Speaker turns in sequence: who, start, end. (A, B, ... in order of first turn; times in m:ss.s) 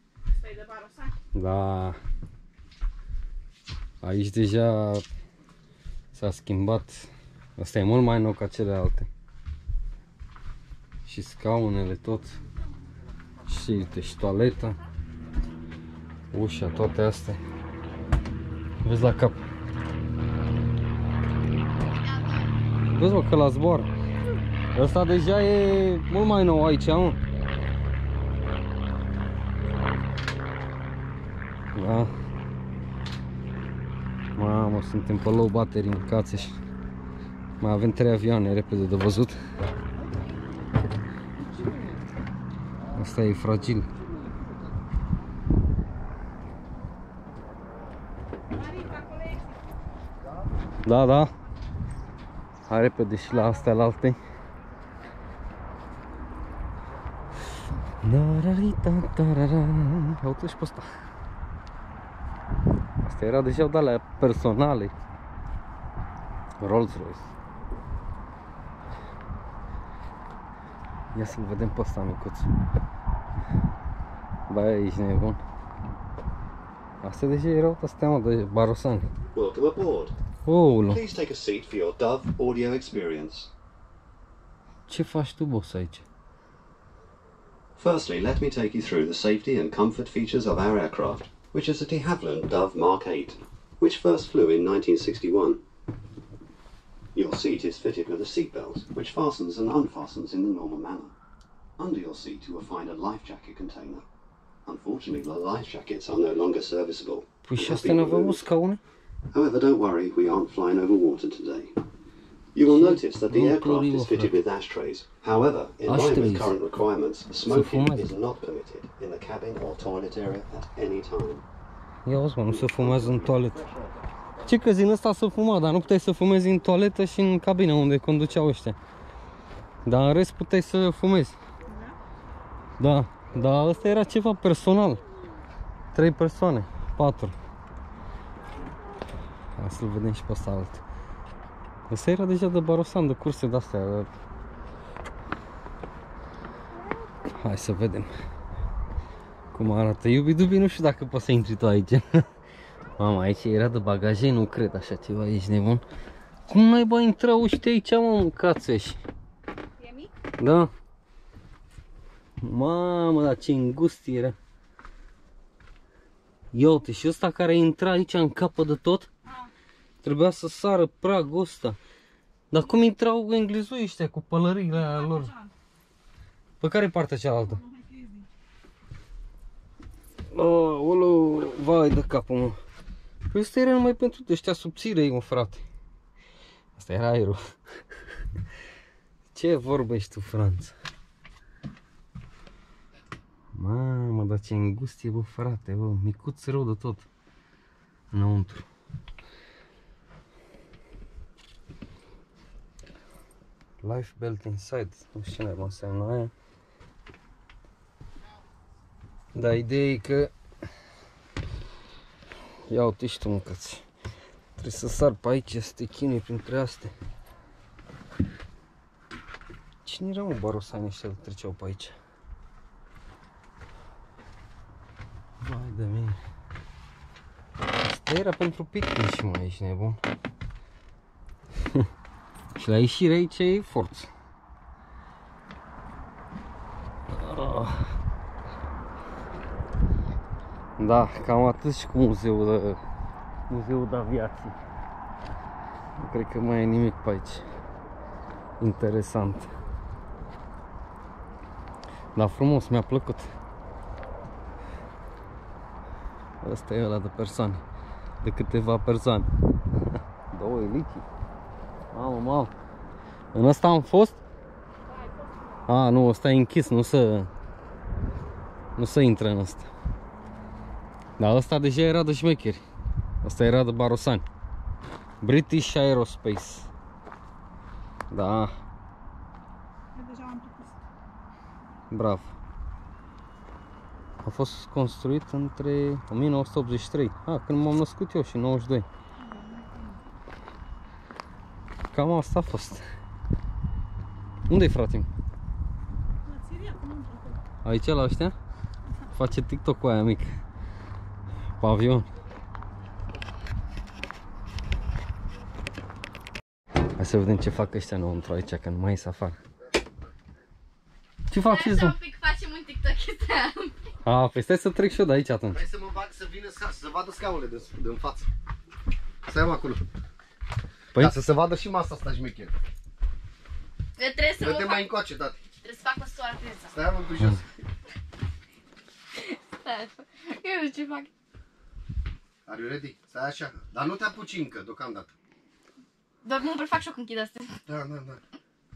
0:00.3-0:01.2 A
0:01.3-0:02.0 B
0:04.0-0:05.0 B
0:06.1-0:09.1 B
0:11.1-0:12.4 B
0:13.5-0:14.8 B
0:16.3-0:17.4 B
0:18.8-0:19.4 B
0:21.9-0:22.5 C
0:23.0-0:23.9 B
0:24.8-0:27.2 B
0:31.8-0:32.1 B
0:34.4-0:36.6 B
0:37.6-0:39.4 B
0:41.4-0:42.0 D
0:43.0-0:43.9 B
0:43.8-0:44.7 D
0:48.5-0:49.7 A
0:50.2-0:50.5 D
0:50.8-0:51.3 B
0:52.7-0:54.2 B
0:53.3-0:53.6 A
0:58.0-1:00.9 B
1:03.0-1:04.9 B
1:06.6-1:07.3 B
1:11.1-1:12.5 B
1:14.5-1:15.4 B
1:17.0-1:19.1 B
1:19.3-1:20.2 E
1:20.4-1:21.0 B
1:20.9-1:23.5 E
1:24.9-1:26.0 B
1:27.8-1:35.6 E
1:37.2-1:41.1 E
1:41.8-1:44.1 E
1:44.7-1:48.5 E
1:47.4-1:48.8 B
1:49.3-1:51.8 E
1:52.6-2:01.4 E
1:52.6-1:54.3 B
1:55.9-1:56.5 B
1:57.5-1:58.1 B
2:02.1-2:03.6 B
2:02.6-2:03.3 E
2:04.4-2:08.8 B
2:09.8-2:11.4 B
2:11.7-2:12.0 A
2:12.8-2:15.0 B
2:15.9-2:17.4 B
2:19.6-2:20.8 B
2:21.9-2:24.1 B
2:27.4-2:28.1 B
2:29.5-2:32.2 B
2:33.0-2:35.8 B
2:36.5-2:39.0 B
2:39.8-2:40.1 A
2:40.4-2:40.7 B
2:42.4-2:44.4 B
2:46.5-2:49.1 B
2:49.2-2:49.5 A
2:50.0-2:51.8 B
2:52.5-2:55.3 B
2:54.7-2:55.5 A
2:56.6-2:57.6 B
2:57.4-2:58.3 A
3:00.3-3:02.6 B
3:03.3-3:05.6 B
3:06.8-3:07.4 B
3:09.3-3:10.8 B
3:13.5-3:17.1 B
3:18.1-3:18.7 B
3:23.8-3:26.3 B
3:29.4-3:30.3 B
3:32.7-3:33.8 B
3:34.6-3:36.9 B
3:39.8-3:42.0 B
3:45.4-3:46.2 B
3:47.7-3:50.0 B
3:52.6-3:54.1 B
3:57.1-3:57.9 B
4:00.8-4:02.8 B
4:03.5-4:04.6 B
4:06.0-4:07.4 B
4:08.6-4:09.5 B
4:12.2-4:13.3 B
4:16.4-4:17.6 B
4:18.2-4:19.3 B
4:19.9-4:21.1 B
4:21.9-4:22.5 B
4:23.3-4:24.2 B
4:24.9-4:25.6 C
4:25.7-4:27.3 B
4:28.8-4:29.7 B
4:31.2-4:32.6 B
4:33.2-4:34.2 B
4:35.2-4:36.7 B
4:38.1-4:38.6 B
4:39.9-4:40.8 A
4:41.9-4:42.4 B
4:44.2-4:48.9 B
4:49.2-4:50.0 A
4:51.9-4:52.8 B
4:54.5-4:55.1 B
4:56.2-4:57.4 A
4:57.6-4:58.4 B
4:59.1-5:00.4 B
5:01.6-5:02.1 B
5:07.0-5:09.4 B
5:11.3-5:12.0 B
5:11.4-5:13.8 C
5:14.0-5:15.6 B
5:15.5-5:18.3 D
5:19.3-5:19.8 D
5:21.0-5:22.5 D
5:24.0-5:25.0 C
5:24.4-5:25.4 D
5:25.6-5:26.7 C
5:26.7-5:27.5 D
5:29.1-5:31.1 C
5:32.5-5:35.1 D
5:36.2-5:37.6 C
5:37.7-5:38.2 D